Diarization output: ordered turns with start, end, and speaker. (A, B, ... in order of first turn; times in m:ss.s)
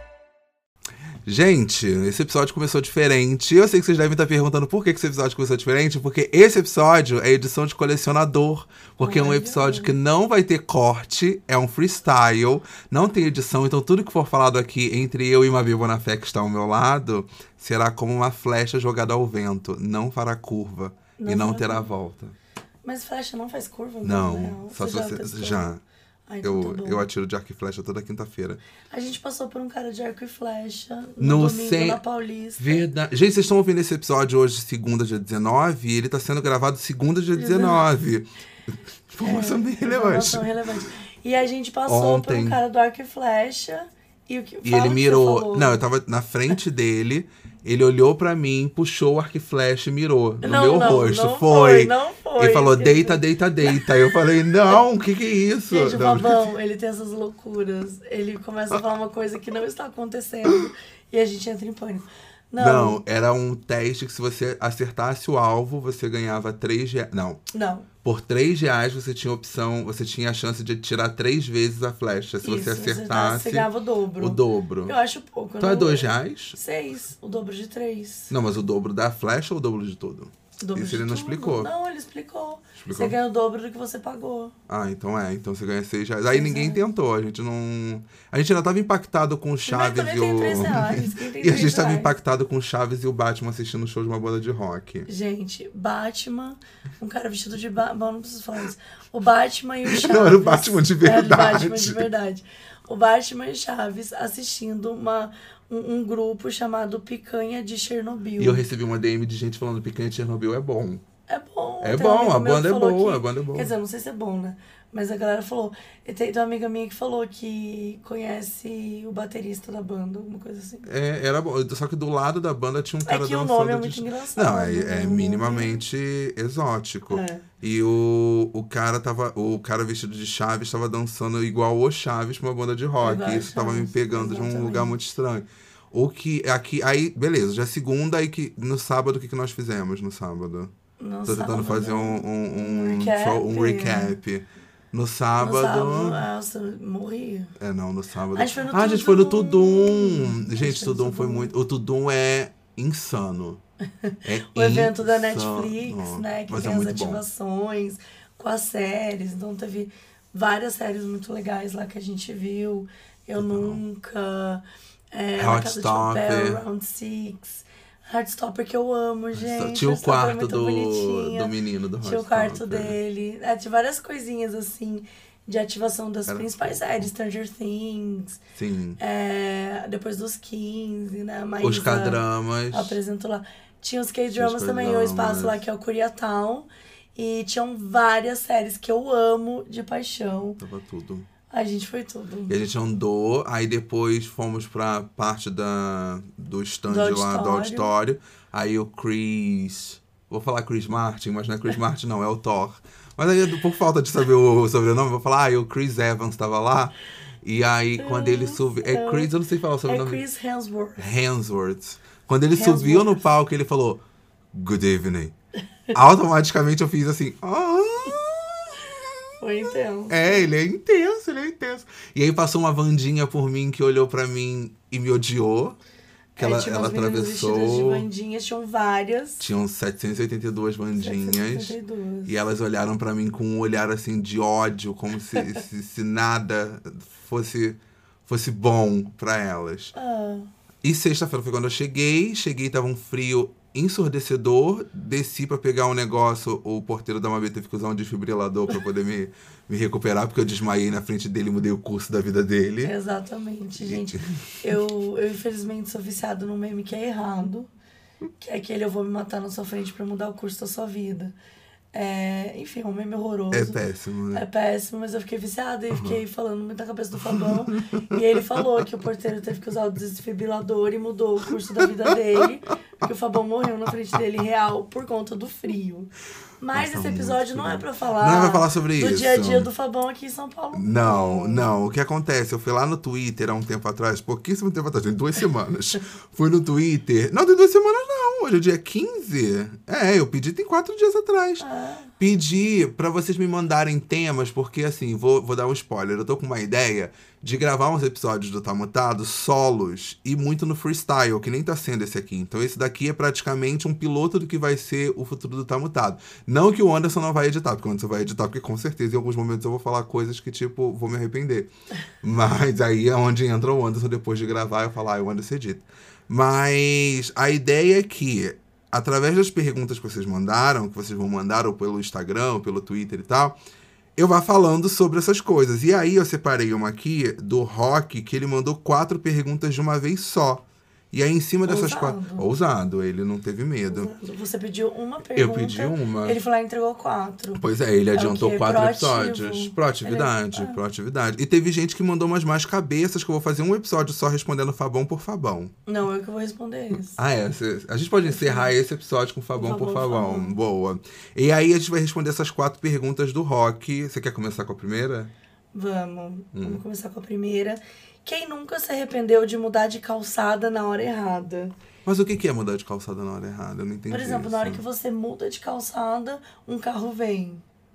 0:01.2-0:22.4 A
0:09.0-0:09.9 B
0:21.2-0:21.9 B
0:22.8-0:25.7 B
0:24.0-0:25.8 A
0:26.3-0:27.0 B
0:26.4-0:28.6 A
0:28.9-0:32.8 B
0:31.2-0:32.0 A
0:32.6-0:40.5 A
0:37.4-0:37.8 B
0:39.2-0:45.8 B
0:41.9-0:42.6 A
0:44.6-0:56.4 A
0:50.4-0:54.8 B
0:55.7-1:03.0 B
1:00.4-1:00.7 A
1:02.6-1:07.4 A
1:07.5-1:07.9 B
1:08.0-1:15.0 A
1:12.4-1:18.3 B
1:15.6-1:16.6 A
1:18.3-1:21.7 A
1:20.6-1:24.6 B
1:22.8-1:23.2 A
1:24.7-1:35.1 A
1:26.3-1:26.8 B
1:29.6-1:32.1 B
1:35.1-1:48.6 B
1:39.9-1:42.1 A
1:48.4-1:51.0 A
1:51.3-2:00.9 B
1:51.8-1:53.7 A
2:00.8-2:20.7 A
2:03.0-2:05.8 B
2:07.1-2:07.4 B
2:13.0-2:15.0 B
2:21.0-2:24.2 B
2:21.3-2:26.2 A
2:25.4-2:27.6 B
2:27.6-2:33.6 A
2:28.3-2:31.5 B
2:34.0-2:51.5 B
2:34.2-2:37.2 A
2:43.4-2:43.8 A
2:45.4-2:46.6 A
2:49.3-2:53.0 A
2:52.0-2:58.4 B
2:56.3-2:57.1 A
2:58.6-2:59.0 A
2:59.0-3:10.6 B
3:01.6-3:03.0 A
3:04.3-3:05.6 A
3:10.6-3:11.3 A
3:11.5-3:12.6 B
3:12.5-3:30.2 A
3:16.9-3:17.9 B
3:28.0-3:29.3 B
3:29.9-3:31.1 B
3:31.0-3:34.0 A
3:32.6-3:33.2 B
3:34.5-3:35.3 A
3:35.9-3:39.1 A
3:39.4-3:40.5 B
3:40.1-3:45.8 A
3:46.4-3:49.5 B
3:46.4-3:48.1 A
3:49.4-3:51.8 A
3:51.0-3:52.3 B
3:52.3-3:59.9 A
4:00.0-4:00.5 B
4:00.8-4:12.9 A
4:12.8-4:17.7 B
4:13.8-4:14.4 A
4:18.4-4:21.3 B
4:21.9-4:23.8 B
4:23.5-4:24.4 A
4:24.3-4:41.7 B
4:25.9-4:26.2 A
4:27.2-4:28.2 A
4:36.7-4:39.7 A
4:40.7-4:51.6 A
4:51.6-4:52.1 B
4:52.2-5:11.7 A
5:12.2-5:23.6 A
5:24.2-5:34.1 A
5:31.6-5:32.5 B
5:33.9-5:37.6 B
5:35.3-5:36.4 A
5:37.5-5:45.7 A
5:38.1-5:40.8 B
5:45.9-5:47.2 B
5:47.2-5:55.3 A
5:48.2-5:48.7 B
5:49.6-5:50.5 B
5:55.7-6:01.7 B
5:56.5-5:56.8 A
6:02.0-6:04.8 A
6:04.1-6:07.6 B